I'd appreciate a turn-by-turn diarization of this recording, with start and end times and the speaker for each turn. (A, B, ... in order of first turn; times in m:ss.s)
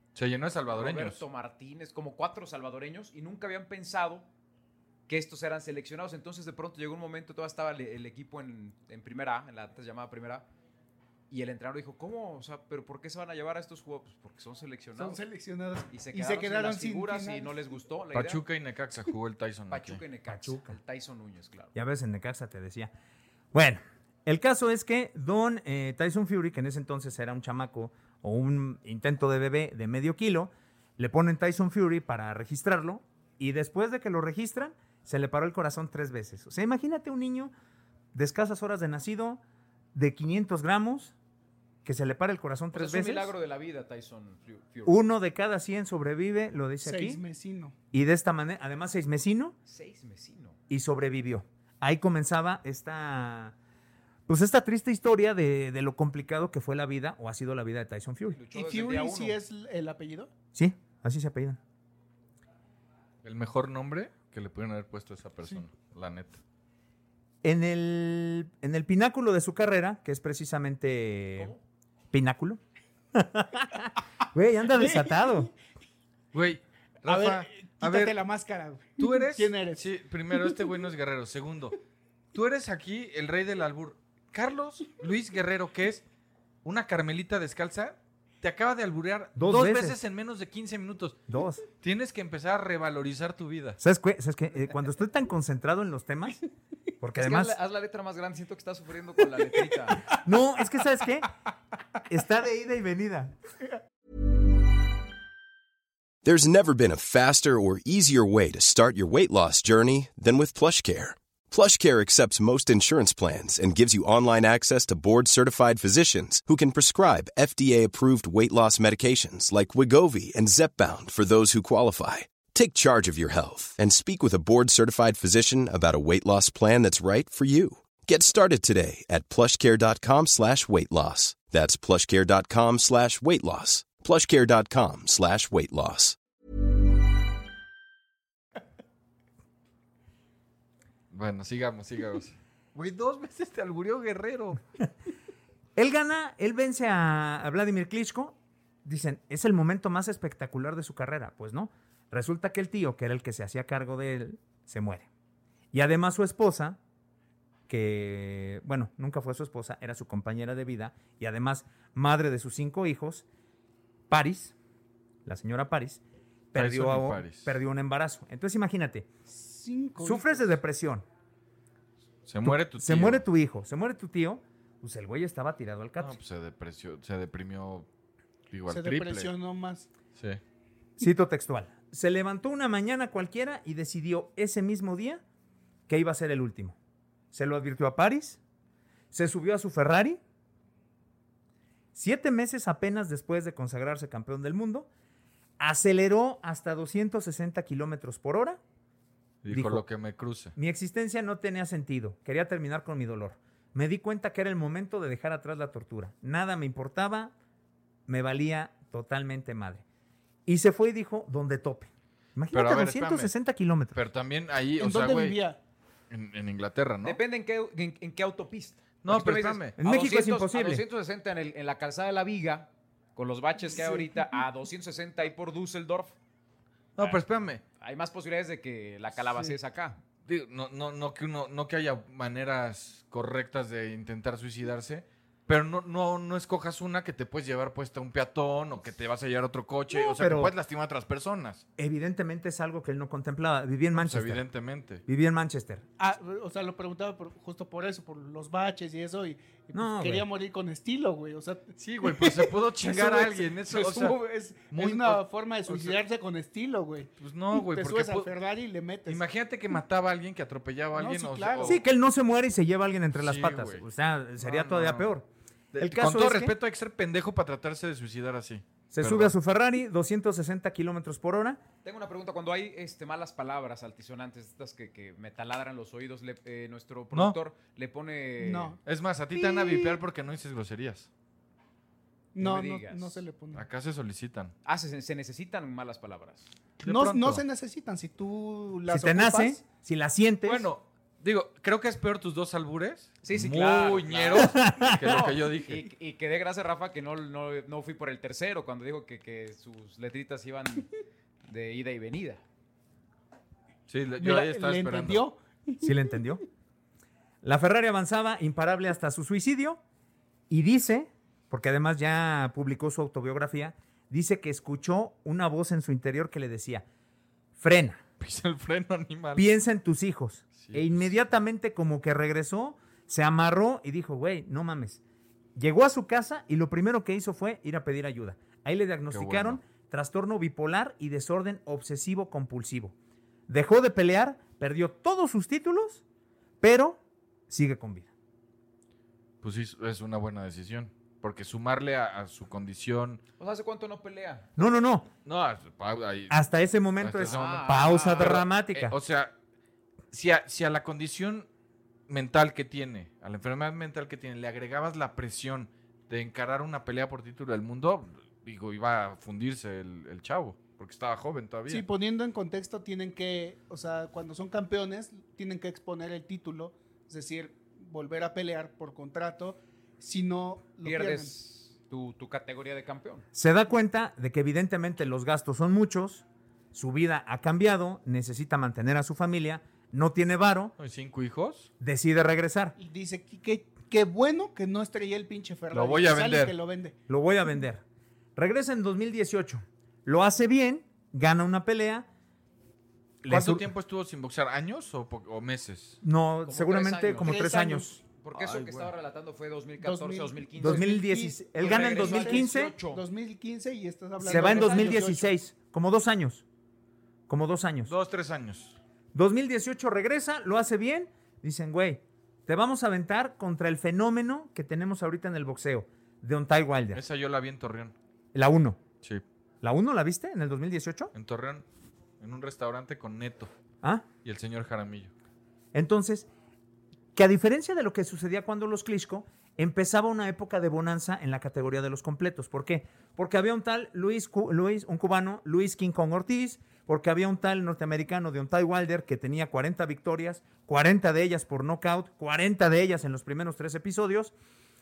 0:00.1-0:01.2 A
0:00.7-0:04.3 B
0:05.1-0:10.4 B
0:11.3-0:15.2 B
0:14.9-0:17.7 C
0:15.9-0:18.4 B
0:18.1-0:20.0 A
0:19.7-0:21.7 B
0:20.3-0:20.8 D
0:21.7-0:22.9 D
0:23.5-0:37.5 D
0:38.1-0:39.4 D
0:39.9-0:41.1 D
0:41.8-0:43.3 D
0:42.7-0:45.0 B
0:44.8-0:47.2 D
0:46.8-0:47.7 C
0:47.9-0:49.6 D
0:49.6-0:50.6 B
0:50.7-0:53.5 D
0:54.3-0:58.4 D
0:58.3-0:59.4 B
0:58.5-1:00.3 C
1:00.5-1:01.6 D
1:03.2-1:06.4 A
1:07.4-1:11.6 D
1:11.4-1:11.6 B
1:12.1-1:12.6 D
1:13.1-1:15.5 D
1:14.8-1:15.2 C
1:16.3-1:18.2 A
1:17.0-1:19.8 C
1:19.0-1:21.8 A
1:22.3-1:26.0 A
1:26.6-1:31.2 A
1:29.4-1:30.0 D
1:31.3-1:31.6 D
1:31.8-1:33.8 A
1:33.8-1:36.4 D
1:37.0-1:37.5 D
1:37.2-1:40.0 B
1:40.1-1:41.3 D
1:42.0-1:43.3 D
1:46.2-2:16.2 E
2:21.1-2:24.6 A
2:25.8-2:35.1 D
2:35.7-2:36.8 D
2:37.7-2:43.2 D
2:44.1-2:44.5 D
2:45.2-2:46.0 D
2:46.5-2:49.1 D
2:46.5-2:47.5 A
2:49.3-2:50.5 C
2:50.0-2:51.0 D
2:52.2-2:53.2 A
2:52.4-2:56.2 D
2:56.0-2:57.9 A
2:58.5-2:59.3 A
2:58.7-2:59.9 C
3:01.0-3:05.2 D
3:05.9-3:06.8 D
3:07.3-3:08.4 D
3:09.1-3:10.2 D
3:11.9-3:14.9 D
3:15.6-3:18.6 D
3:19.4-3:20.5 A
3:19.5-3:19.8 D
3:20.6-3:27.3 D
3:28.1-3:29.8 D
3:30.4-3:34.0 D
3:32.5-3:33.3 A
3:33.9-3:35.4 A
3:34.8-3:35.6 C
3:36.1-3:37.2 A
3:37.0-3:46.1 B
3:39.0-3:39.8 A
3:39.8-3:40.8 D
3:43.7-3:44.4 C
3:47.0-3:47.6 A
3:47.8-3:50.0 B
3:49.3-3:49.5 C
3:50.2-4:01.6 A
3:59.9-4:00.5 D
4:01.8-4:04.4 D
4:03.9-4:05.0 A
4:05.1-4:05.8 D
4:06.0-4:19.2 C
4:09.7-4:10.3 D
4:11.8-4:14.2 A
4:14.7-4:16.0 A
4:17.2-4:18.3 A
4:19.1-4:21.8 A
4:20.9-4:21.8 C
4:21.6-4:26.5 D
4:23.2-4:23.8 A
4:24.4-4:25.1 A
4:25.7-4:29.3 A
4:28.9-4:31.6 D
4:31.8-4:38.8 B
4:38.4-4:38.8 C
4:38.8-4:41.1 A
4:39.3-4:40.0 C
4:42.3-4:43.6 C
4:42.4-4:43.2 B
4:43.5-4:44.5 A
4:44.6-4:46.5 B
4:46.8-4:47.4 A
4:46.8-4:49.6 C
4:48.9-4:50.7 D
4:50.4-4:55.9 A
4:53.2-5:00.9 B
4:54.4-4:55.0 D
5:01.4-5:02.4 B
5:03.9-5:05.2 A
5:04.2-5:06.2 C
5:05.8-5:06.4 D
5:07.4-5:09.8 D
5:10.5-5:16.8 D
5:17.6-5:18.0 D
5:18.2-5:19.5 A
5:19.4-5:25.0 D
5:20.6-5:21.1 A
5:25.5-5:32.9 D
5:29.1-5:29.6 A
5:33.5-5:36.0 D
5:36.6-5:38.1 D
5:39.4-5:43.2 A
5:43.4-5:44.5 B
5:44.6-5:45.1 D
5:45.2-5:46.4 A
5:46.3-5:49.0 D
5:47.0-5:49.3 A
5:47.2-5:48.4 B
5:50.1-5:51.5 A
5:52.1-6:01.8 A
6:01.7-6:11.3 C
6:10.8-6:13.2 B
6:13.3-6:20.7 D
6:20.8-6:21.7 A
6:21.8-6:22.8 D
6:22.8-6:26.9 C
6:25.7-6:26.5 A
6:27.1-6:27.8 D
6:28.4-6:32.1 D
6:33.2-6:33.6 D
6:33.3-6:36.0 A
6:36.0-6:38.0 D
6:36.4-6:37.5 B
6:37.2-6:38.0 C
6:38.2-6:41.0 B
6:38.3-6:38.9 A
6:39.8-6:45.3 C
6:40.6-6:42.7 D
6:41.6-6:43.0 B
6:44.2-6:45.0 B
6:44.2-6:46.4 D
6:47.3-6:47.9 D
6:47.9-6:48.8 A
6:49.1-6:57.0 D
6:56.9-6:57.9 A
6:58.3-6:58.8 D
6:59.6-7:01.1 D
7:01.1-7:01.6 A
7:02.2-7:03.5 A
7:03.8-7:04.1 D
7:04.2-7:05.1 A
7:05.7-7:06.3 D
7:07.1-7:24.3 D